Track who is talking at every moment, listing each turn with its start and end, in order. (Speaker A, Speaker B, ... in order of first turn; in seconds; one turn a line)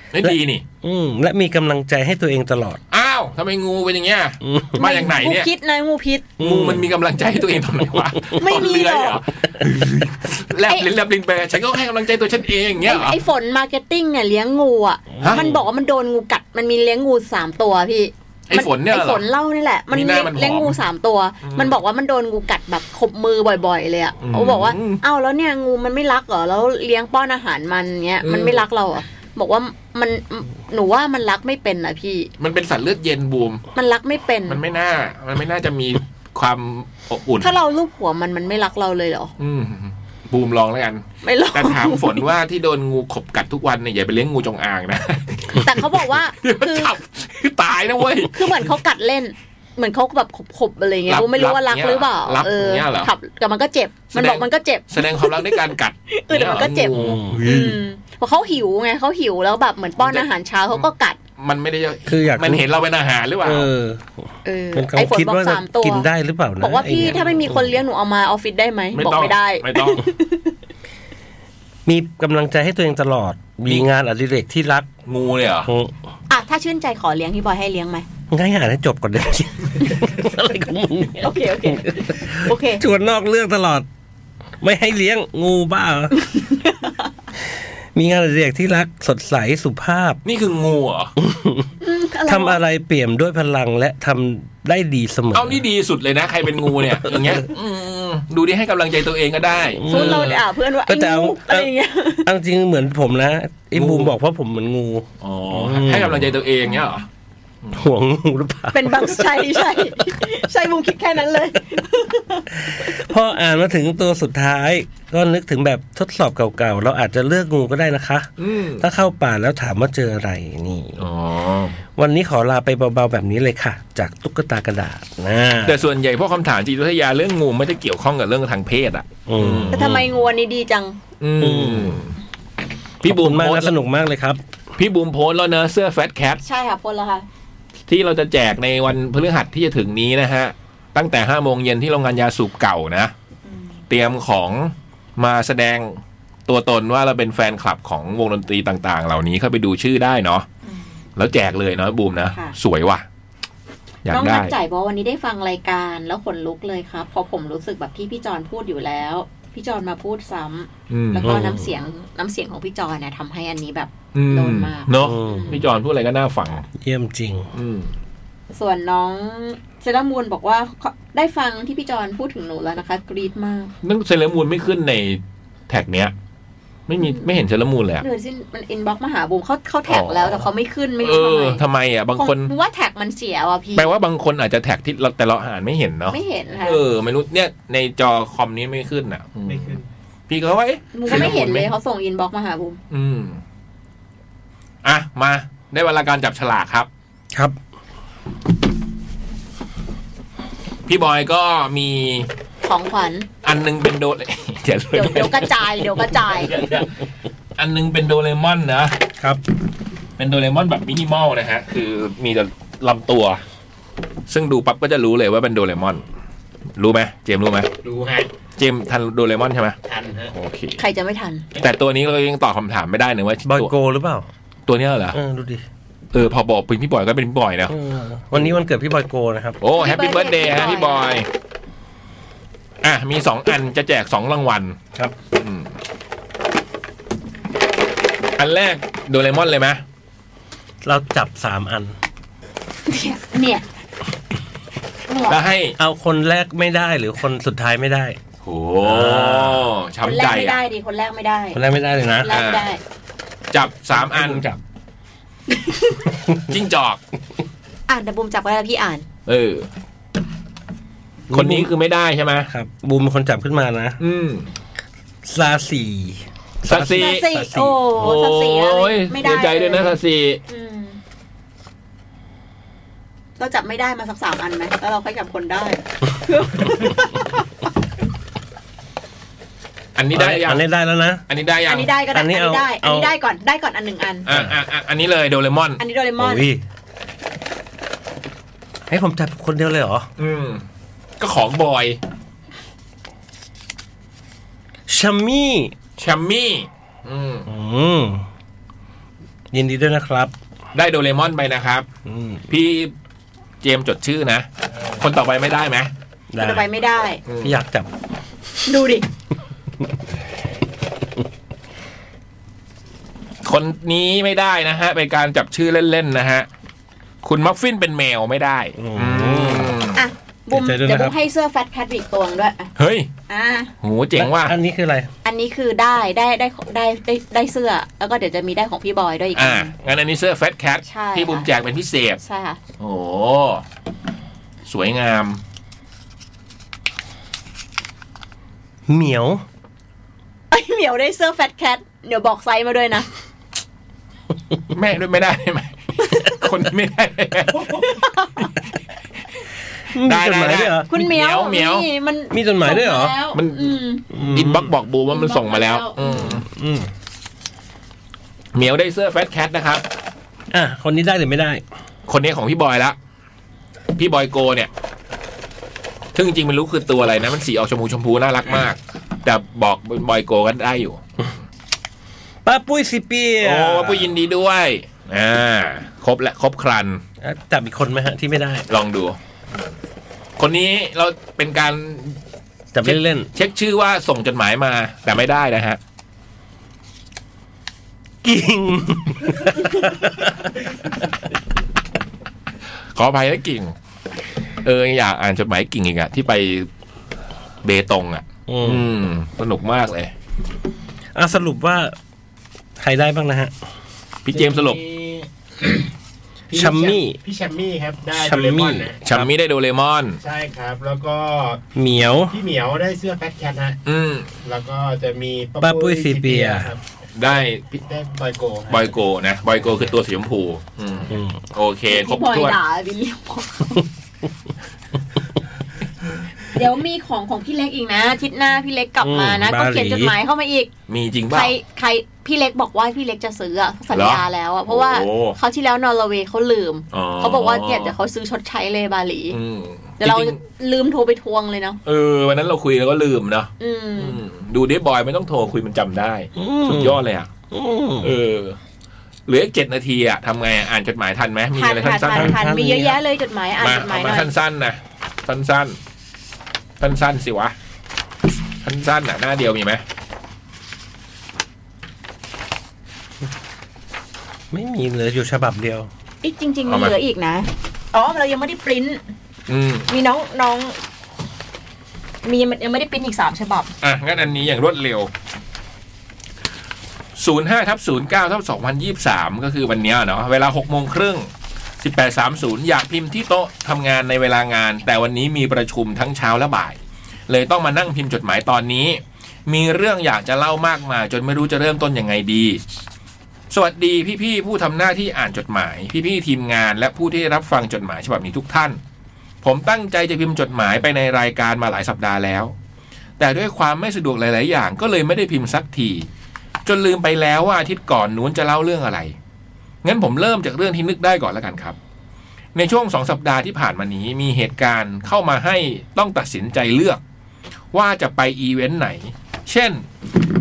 Speaker A: 0.1-0.6
Speaker B: 0.2-2.8
Speaker A: 2.9-5.5
Speaker B: 4.4-4.8
Speaker C: 4.7-6.3
Speaker B: 6.4-6.8
Speaker A: 6.4-13.2
Speaker C: 8.3-9.2
Speaker C: 12.8-32.3
Speaker B: 15.2-15.6
Speaker A: 18.5-19.2
Speaker A: 19.9-20.8
Speaker A: 21.4-21.8
Speaker A: 24.2-25.0
Speaker A: 28.2-28.6
Speaker A: 32.4-33.6
Speaker C: 33.7-34.6
Speaker A: 34.5-37.5
Speaker C: 37.4-39.3
Speaker A: 39.4-48.7
Speaker C: 41.2-42.2
Speaker C: 45.5-46.9
Speaker C: 48.3-61.2
Speaker A: 51.1-53.1
Speaker A: 54.1-57.8
Speaker B: 56.9-57.4
Speaker A: 60.0-60.8
Speaker A: 61.4-63.7
Speaker B: 62.1-62.6
Speaker B: 63.4-64.2
Speaker C: 64.4-70.5
Speaker B: 64.7-67.8
Speaker A: 68.9-70.0
Speaker B: 71.8-74.9
Speaker A: 75.0-75.7
Speaker B: 75.7-75.9
Speaker C: 76.3-78.0
Speaker B: 78.3-83.8
Speaker C: 81.2-82.8
Speaker B: 84.6-86.3
Speaker C: 86.3-86.9
Speaker B: 87.9-90.2
Speaker A: 90.2-91.1
Speaker B: 91.2-91.7
Speaker C: 91.8-92.6
Speaker B: 92.3-95.6
Speaker A: 95.3-100.4
Speaker B: 96.7-97.4
Speaker B: 99.8-101.7
Speaker C: 99.9-102.3
Speaker B: 102.2-106.3
Speaker A: 103.7-104.1
Speaker A: 105.2-107.0
Speaker B: 107.7-109.7
Speaker C: 108.7-112.5
Speaker B: 112.6-118.3
Speaker A: 118.4-118.8
Speaker B: 118.8-121.0
Speaker A: 121.0-121.8
Speaker B: 121.9-125.8
Speaker A: 125.6-130.0
Speaker B: 129.3-130.0
Speaker C: 129.7-131.0
Speaker A: 131.2-132.2
Speaker B: 131.4-132.0
Speaker A: 133.0-133.7
Speaker B: 133.0-134.4
Speaker A: 134.8-136.4
Speaker C: 136.4-137.2
Speaker A: 137.9-143.1
Speaker C: 143.4-143.8
Speaker A: 143.9-150.4
Speaker A: 151.2-153.0
Speaker A: 154.0-154.5
Speaker C: 154.1-165.6
Speaker A: 160.9-161.4
Speaker B: 161.2-161.7
Speaker A: 164.1-166.7
Speaker B: 165.0-165.7
Speaker B: 166.8-167.5
Speaker A: 167.5-167.9
Speaker C: 168.5-173.7
Speaker A: 173.8-176.1
Speaker A: 176.9-178.0
Speaker C: 177.0-177.3
Speaker C: 178.0-181.6
Speaker A: 179.9-180.5
Speaker A: 181.0-182.5
Speaker C: 182.2-183.9
Speaker A: 183.8-191.7
Speaker C: 186.1-186.8
Speaker D: 189.4-189.9
Speaker C: 190.9-192.8
Speaker A: 192.9-193.4
Speaker A: 194.8-196.9
Speaker A: 200.9-202.3
Speaker C: 202.6-203.3
Speaker A: 203.4-206.9
Speaker C: 204.9-206.5
Speaker A: 207.6-208.9
Speaker A: 210.2-213.4
Speaker A: 214.3-216.0
Speaker A: 216.8-217.7
Speaker D: 217.8-218.3
Speaker A: 218.6-219.8
Speaker D: 219.9-220.3
Speaker A: 220.3-220.8
Speaker C: 220.8-221.4
Speaker A: 221.6-223.7
Speaker B: 223.4-224.3
Speaker A: 224.7-225.2
Speaker B: 225.1-225.6
Speaker A: 226.1-227.7
Speaker B: 227.7-229.6
Speaker A: 229.6-231.3
Speaker C: 229.7-231.2
Speaker A: 232.8-235.7
Speaker A: 238.4-239.8
Speaker B: 240.8-241.9
Speaker C: 242.9-243.6
Speaker C: 245.1-245.4
Speaker A: 245.3-245.8
Speaker B: 245.8-248.2
Speaker A: 248.4-250.6
Speaker B: 248.8-249.7
Speaker C: 250.0-251.6
Speaker B: 251.5-252.3
Speaker C: 252.2-252.8
Speaker A: 252.3-252.7
Speaker A: 253.5-254.5
Speaker B: 253.9-254.6
Speaker C: 255.5-256.0
Speaker A: 256.5-257.0
Speaker C: 257.9-259.1
Speaker A: 259.2-259.7
Speaker B: 261.3-261.7
Speaker A: 261.3-262.5
Speaker B: 262.5-264.0
Speaker A: 264.0-264.5
Speaker B: 265.2-267.8
Speaker A: 266.7-267.2
Speaker C: 266.9-269.9
Speaker A: 267.9-270.4
Speaker C: 270.5-271.0
Speaker C: 273.4-277.4
Speaker A: 279.9-280.6
Speaker B: 280.1-281.2
Speaker A: 281.3-281.9
Speaker C: 281.7-284.2
Speaker B: 282.1-283.1
Speaker A: 284.2-285.8
Speaker B: 284.3-284.5
Speaker C: 285.8-286.4
Speaker B: 286.2-286.6
Speaker B: 288.9-290.1
Speaker A: 290.2-290.6
Speaker A: 291.2-292.0
Speaker B: 294.9-295.7
Speaker A: 296.0-297.5
Speaker B: 297.5-298.2
Speaker B: 299.5-300.3
Speaker A: 300.7-301.9
Speaker B: 302.1-302.4
Speaker A: 302.5-302.9
Speaker A: 303.6-305.9
Speaker B: 306.3-306.6
Speaker C: 306.4-307.2
Speaker A: 307.3-307.6
Speaker B: 307.4-307.9
Speaker C: 308.6-309.1
Speaker A: 313.4-316.5
Speaker A: 317.2-320.0
Speaker B: 318.8-319.8
Speaker C: 319.9-322.7
Speaker B: 320.5-321.1
Speaker A: 322.8-323.1
Speaker C: 323.3-323.7
Speaker A: 323.8-324.5
Speaker B: 324.1-325.1
Speaker C: 325.2-329.7
Speaker A: 329.3-332.2
Speaker C: 330.9-331.5
Speaker C: 332.2-332.6
Speaker A: 332.8-333.6
Speaker A: 334.6-335.4
Speaker B: 338.9-339.4
Speaker C: 340.5-343.1
Speaker A: 344.7-347.9
Speaker C: 347.7-348.5
Speaker B: 349.9-350.9
Speaker A: 350.0-351.9
Speaker C: 350.9-354.0
Speaker B: 352.3-353.1
Speaker A: 353.3-353.8
Speaker B: 354.1-354.7
Speaker A: 354.3-356.4
Speaker C: 355.1-356.4
Speaker B: 356.4-356.9
Speaker A: 358.5-359.8
Speaker B: 360.5-361.6
Speaker A: 362.1-362.9
Speaker A: 364.0-364.7
Speaker A: 366.1-371.0
Speaker B: 372.4-374.1
Speaker A: 373.4-377.0
Speaker B: 377.2-378.6
Speaker A: 378.7-379.2
Speaker A: 380.4-382.2
Speaker B: 382.7-383.3
Speaker A: 382.8-385.8
Speaker B: 388.2-390.5
Speaker A: 392.9-393.7
Speaker A: 394.6-396.7
Speaker A: 397.6-400.1
Speaker B: 398.5-398.9
Speaker B: 401.1-401.9
Speaker B: 402.8-403.5
Speaker A: 404.2-404.8
Speaker D: 404.3-405.3
Speaker D: 406.5-409.0
Speaker B: 406.5-407.2
Speaker B: 408.1-409.3
Speaker A: 409.0-410.2
Speaker D: 410.2-411.6
Speaker B: 411.8-412.3
Speaker D: 412.3-413.8
Speaker A: 413.9-414.3
Speaker D: 414.4-418.9
Speaker B: 415.6-416.7
Speaker A: 417.1-417.8
Speaker A: 418.7-422.6
Speaker D: 419.7-419.9
Speaker B: 421.1-421.4
Speaker C: 421.9-423.8
Speaker C: 426.5-430.7
Speaker B: 429.0-430.1
Speaker A: 430.9-431.5
Speaker C: 431.3-439.4
Speaker A: 433.9-435.4
Speaker A: 436.9-437.9
Speaker A: 439.3-440.4
Speaker C: 440.0-441.8
Speaker A: 441.9-447.3
Speaker C: 443.6-444.2
Speaker B: 446.4-447.0
Speaker B: 447.5-448.1
Speaker A: 448.0-448.6
Speaker A: 449.3-452.4
Speaker C: 451.6-454.3
Speaker B: 452.1-453.0
Speaker A: 453.6-455.8
Speaker A: 456.8-457.5
Speaker A: 458.6-459.8
Speaker B: 464.5-465.9
Speaker C: 466.2-469.0
Speaker A: 466.7-466.9
Speaker A: 469.5-469.9
Speaker C: 469.9-470.8
Speaker C: 472.2-473.7
Speaker A: 473.8-475.1
Speaker A: 477.2-481.3
Speaker A: 481.8-492.6
Speaker A: 493.5-498.8
Speaker A: 499.4-502.5
Speaker A: 503.2-506.1
Speaker A: 506.6-509.1
Speaker A: 509.8-511.8
Speaker A: 512.5-517.0
Speaker A: 517.7-519.8